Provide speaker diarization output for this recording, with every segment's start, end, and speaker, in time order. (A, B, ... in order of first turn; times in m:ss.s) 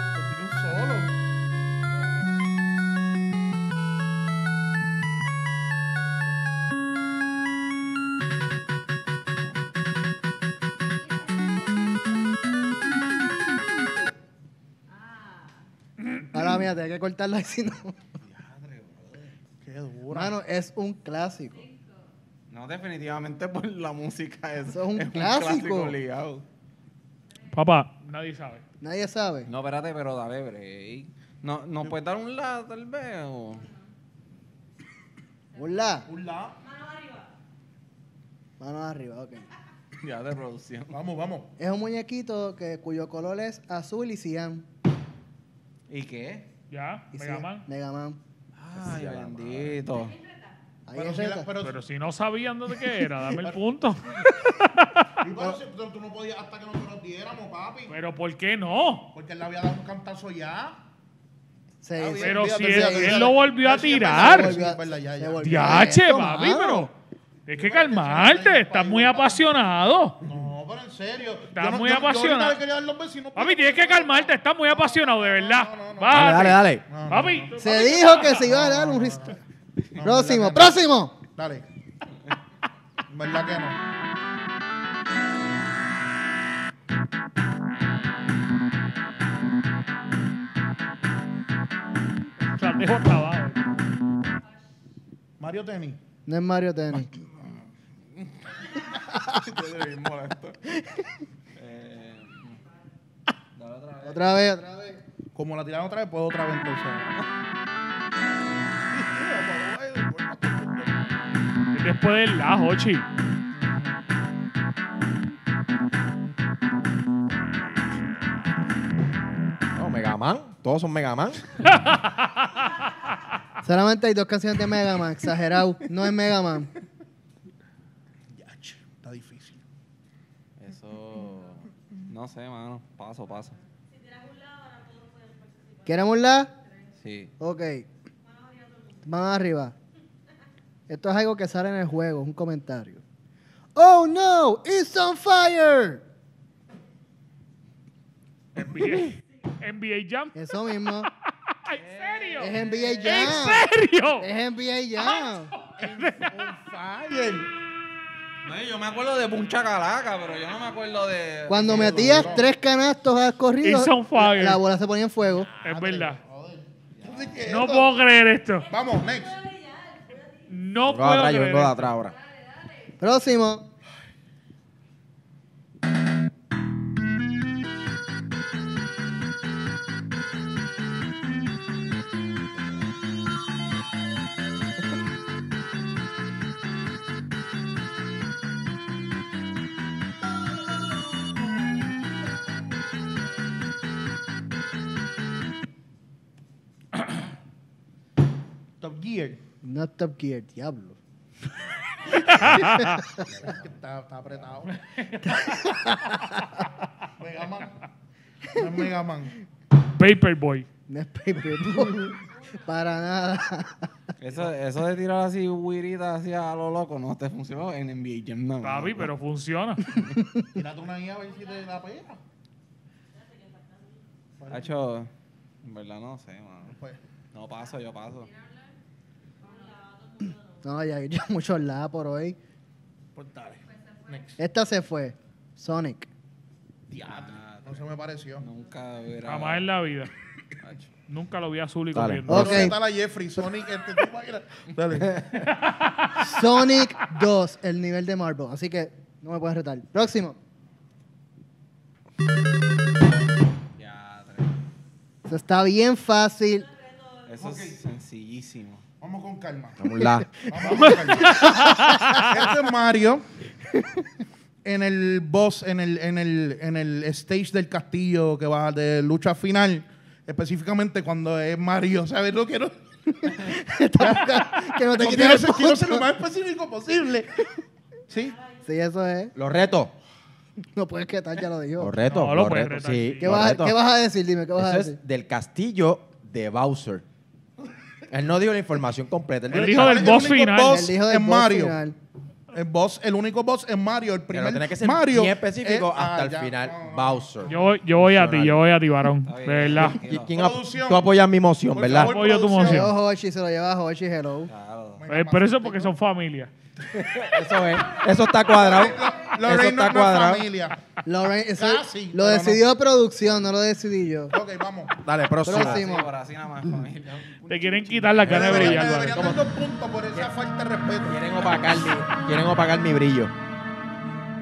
0:00.2-0:01.2 A
0:16.0-0:16.5 B
0:16.3-0:18.0 C
0:18.2-0:19.4 D
0:19.6-0:20.4 A
0:20.1-0:21.7 C
0:22.5-0:26.4 D
0:24.7-0:26.0 C
0:27.5-0:28.6 B
0:28.8-0:29.5 C
0:29.5-0:33.7 D
0:35.6-0:36.1 C
0:36.1-0:36.6 A
0:38.6-0:39.5 C
0:40.0-0:41.0 D
0:40.9-0:41.5 A
0:41.6-0:44.7 C
0:45.9-0:46.5 D
0:46.7-0:47.7 B
0:47.1-0:48.2 C
0:48.6-0:50.2 D
0:48.8-0:49.9 E
0:50.9-0:51.5 C
0:50.9-0:51.8 A
0:51.6-0:55.2 B
0:55.2-0:58.0 A
0:57.9-0:59.1 B
0:59.1-1:00.8 A
1:01.8-1:03.4 C
1:02.0-1:05.9 A
1:02.2-1:04.6 B
1:04.1-1:06.9 C
1:05.4-1:06.9 B
1:07.5-1:10.2 B
1:07.5-1:09.4 A
1:10.2-1:17.6 A
1:11.6-1:12.6 B
1:13.4-1:18.5 B
1:16.1-1:16.8 E
1:17.6-1:19.4 C
1:18.3-1:19.4 A
1:20.0-1:21.7 A
1:20.0-1:21.2 C
1:23.1-1:23.8 A
1:32.5-1:33.7 B
1:35.4-1:36.0 A
1:36.3-1:37.1 C
1:39.3-1:40.6 D
1:41.6-1:42.6 D
1:43.6-1:44.4 D
1:44.0-1:45.0 C
1:45.4-1:47.2 A
1:48.9-1:51.0 A
1:51.7-1:53.1 B
1:59.8-2:01.4 E
2:01.6-2:02.5 B
2:03.6-2:06.7 C
2:08.3-2:09.6 A
2:10.6-2:13.6 D
2:15.9-2:16.5 C
2:17.0-2:17.3 D
2:17.4-2:17.9 C
2:19.0-2:19.8 C
2:20.9-2:23.0 C
2:23.8-2:26.0 C
2:28.6-2:30.4 B
2:30.4-2:31.1 C
2:31.0-2:34.3 B
2:31.7-2:33.2 D
2:32.4-2:33.6 C
2:34.2-2:35.5 C
2:35.0-2:36.4 B
2:35.8-2:37.5 A
2:38.4-2:42.4 D
2:41.5-2:45.5 C
2:41.7-2:42.5 A
2:43.6-2:44.6 B
2:45.5-2:47.9 A
2:45.6-2:46.2 B
2:47.0-2:47.4 D
2:47.5-2:48.7 B
2:48.7-2:49.5 A
2:50.5-2:51.9 B
2:50.8-2:52.2 E
2:53.0-2:53.7 C
3:18.8-3:19.4 A
3:19.6-3:21.0 C
3:22.4-3:23.4 C
3:22.4-3:23.0 B
3:23.4-3:24.8 A
3:25.1-3:25.4 B
3:25.2-3:26.6 C
3:27.2-3:27.8 A
3:28.6-3:29.3 A
3:30.0-3:30.7 B
3:30.9-3:33.9 C
3:34.2-3:39.1 D
3:38.6-3:40.0 B
3:40.0-3:40.4 C
3:40.6-3:42.2 A
3:44.4-3:44.8 A
3:44.5-3:45.1 D
3:45.6-3:46.8 D
3:46.7-3:47.0 A
3:47.3-3:48.3 D
3:50.6-3:52.4 C
3:53.2-3:54.4 A
3:54.4-3:56.1 C
3:56.9-3:58.5 A
3:57.0-3:57.9 D
3:58.4-3:59.7 D
3:59.2-4:00.1 B
4:00.6-4:00.9 D
4:01.1-4:02.7 B
4:01.9-4:02.7 E
4:02.3-4:02.8 C
4:02.4-4:05.4 A
4:05.5-4:06.4 B
4:06.2-4:10.4 C
4:13.8-4:14.6 D
4:15.3-4:16.7 C
4:17.3-4:18.8 D
4:17.4-4:17.8 A
4:19.0-4:19.8 A
4:19.8-4:20.3 E
4:20.4-4:21.6 A
4:20.7-4:22.3 B
4:21.2-4:22.2 C
4:22.2-4:23.2 A
4:24.6-4:32.8 A
4:33.2-4:36.1 C
4:34.0-4:37.4 A
4:38.1-4:38.4 A
4:38.6-4:39.3 C
4:39.4-4:40.0 E
4:40.7-4:42.0 C
4:41.8-4:43.8 E
4:42.1-4:43.5 B
4:43.2-4:45.0 C
4:44.6-4:47.0 E
4:48.1-4:50.3 E
4:49.5-4:50.9 B
4:49.5-4:51.8 A
4:50.7-4:52.0 C
4:52.5-4:57.6 A
4:54.3-4:58.7 E
4:57.5-5:00.0 B
4:59.2-5:00.4 D
5:00.0-5:02.2 E
5:00.3-5:01.1 A
5:01.7-5:02.9 A
5:01.9-5:02.9 B
5:02.6-5:04.5 C
5:04.5-5:05.0 D
5:05.0-5:05.9 A
5:05.1-5:06.5 B
5:06.9-5:10.5 E
5:08.4-5:10.8 A
5:11.0-5:14.4 C
5:11.6-5:12.6 A
5:14.3-5:15.0 A
5:15.0-5:15.9 E
5:15.4-5:16.1 C
5:15.5-5:18.4 D
5:17.5-5:19.4 B
5:18.2-5:21.2 A
5:18.3-5:19.4 E
5:21.0-5:23.3 E